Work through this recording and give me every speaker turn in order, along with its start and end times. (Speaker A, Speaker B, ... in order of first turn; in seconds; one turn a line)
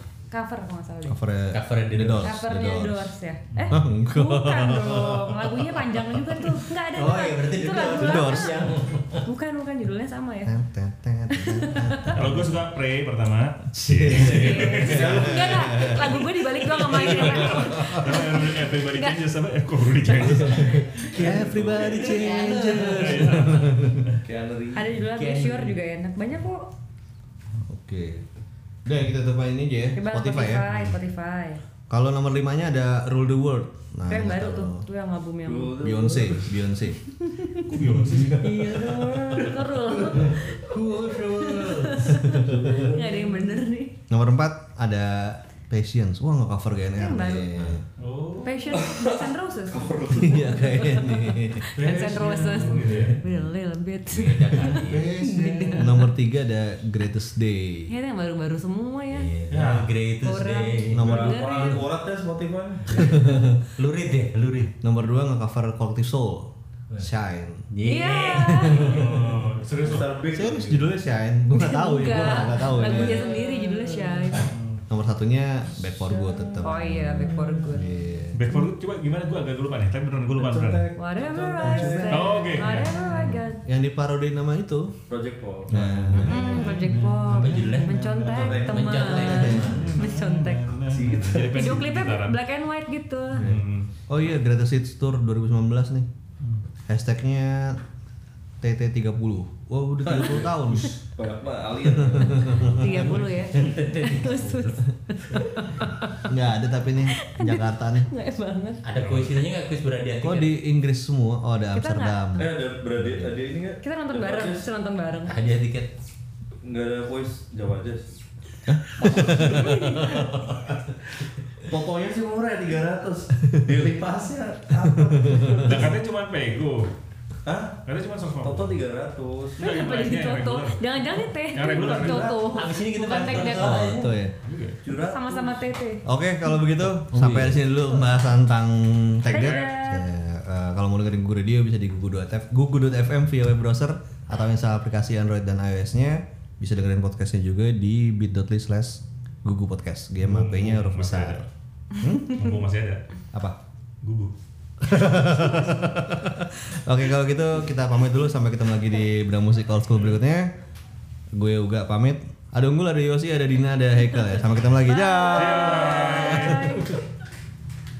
Speaker A: 0.3-1.2
Speaker B: 1.1-3.1
Speaker C: 1.5-2.3
Speaker A: 2.2-8.6
Speaker D: 3.5-3.8
Speaker B: 3.7-6.0
Speaker C: 6.8-9.3
Speaker B: 7.9-8.7
Speaker A: 9.2-10.5
Speaker B: 10.4-12.5
Speaker A: 11.3-12.2
Speaker D: 12.1-15.3
Speaker B: 13.7-16.3
Speaker A: 14.1-19.2
Speaker E: 14.8-16.0
Speaker D: 16.8-20.9
Speaker B: 16.9-18.2
Speaker A: 20.0-21.1
Speaker B: 20.4-24.2
Speaker C: 21.0-23.6
Speaker E: 21.1-22.3
Speaker D: 22.9-24.2
Speaker E: 24.2-25.0
Speaker A: 24.7-26.7
Speaker C: 25.0-25.8
Speaker B: 27.7-28.3
Speaker B: 28.9-30.7
Speaker A: 29.9-31.6
Speaker D: 30.7-31.0
Speaker B: 31.9-34.9
Speaker A: 34.1-35.8
Speaker E: 35.5-36.5
Speaker B: 35.8-37.0
Speaker A: 37.2-37.7
Speaker D: 37.6-38.5
Speaker B: 38.0-38.7
Speaker A: 38.3-43.9
Speaker C: 40.6-42.0
Speaker B: 42.0-42.9
Speaker E: 42.1-43.6
Speaker B: 44.1-47.8
Speaker A: 47.0-47.8
Speaker D: 48.0-48.8
Speaker A: 48.4-56.1
Speaker E: 48.7-51.0
Speaker B: 50.1-51.7
Speaker D: 51.8-53.2
Speaker B: 52.8-53.5
Speaker C: 54.1-55.9
Speaker B: 54.4-57.9
Speaker A: 57.9-59.3
Speaker C: 59.1-61.1
Speaker D: 59.5-59.9
Speaker A: 60.2-61.9
Speaker B: 60.9-61.7
Speaker E: 61.0-63.1
Speaker B: 62.9-63.6
Speaker C: 63.0-64.7
Speaker B: 64.8-67.7
Speaker C: 67.7-69.0
Speaker A: 67.8-69.1
Speaker B: 68.3-69.3
Speaker D: 68.8-70.1
Speaker E: 69.8-71.0
Speaker B: 70.3-73.4
Speaker A: 71.5-74.5
Speaker D: 74.5-74.8
Speaker B: 74.9-78.4
Speaker E: 76.1-77.6
Speaker A: 76.6-77.9
Speaker D: 78.3-80.9
Speaker E: 80.3-82.5
Speaker A: 81.0-83.6
Speaker B: 81.6-85.0
Speaker D: 82.1-83.0
Speaker E: 85.1-85.9
Speaker B: 85.7-86.7
Speaker D: 85.7-88.0
Speaker A: 86.2-90.8
Speaker C: 86.6-90.0
Speaker E: 88.2-89.5
Speaker D: 89.3-92.4
Speaker B: 89.3-90.0
Speaker E: 90.9-91.7
Speaker A: 91.5-93.4
Speaker B: 93.4-96.1
Speaker D: 93.4-93.9
Speaker B: 96.9-97.8
Speaker B: 98.6-100.9
Speaker E: 100.0-102.9
Speaker B: 101.8-103.2
Speaker A: 102.7-106.5
Speaker C: 103.0-104.8
Speaker B: 106.2-108.1
Speaker A: 107.1-108.8
Speaker C: 108.8-110.5
Speaker D: 109.0-109.3
Speaker B: 110.2-113.4
Speaker A: 111.7-112.2
Speaker E: 112.4-114.7
Speaker A: 113.8-115.3
Speaker C: 115.3-115.9
Speaker E: 116.6-118.2
Speaker B: 118.7-120.4
Speaker E: 119.0-125.9
Speaker A: 119.4-120.3
Speaker B: 124.8-125.9
Speaker D: 125.6-126.9
Speaker E: 127.5-127.8
Speaker D: 127.8-128.8
Speaker E: 128.4-129.6
Speaker D: 129.6-130.8
Speaker A: 129.6-133.9
Speaker D: 131.5-132.3
Speaker E: 131.6-133.3
Speaker C: 132.3-134.2
Speaker B: 133.5-134.3
Speaker D: 134.4-134.8
Speaker E: 134.8-135.6
Speaker A: 135.0-136.0
Speaker B: 136.1-151.5
Speaker C: 137.1-137.6
Speaker A: 139.2-140.1
Speaker D: 139.3-139.7
Speaker D: 150.2-151.5
Speaker B: 152.0-152.4
Speaker D: 152.3-153.0
Speaker B: 153.3-153.6
Speaker D: 154.0-154.3
Speaker B: 154.8-160.5
Speaker B: 161.3-166.8
Speaker A: 164.2-167.0
Speaker D: 165.3-166.9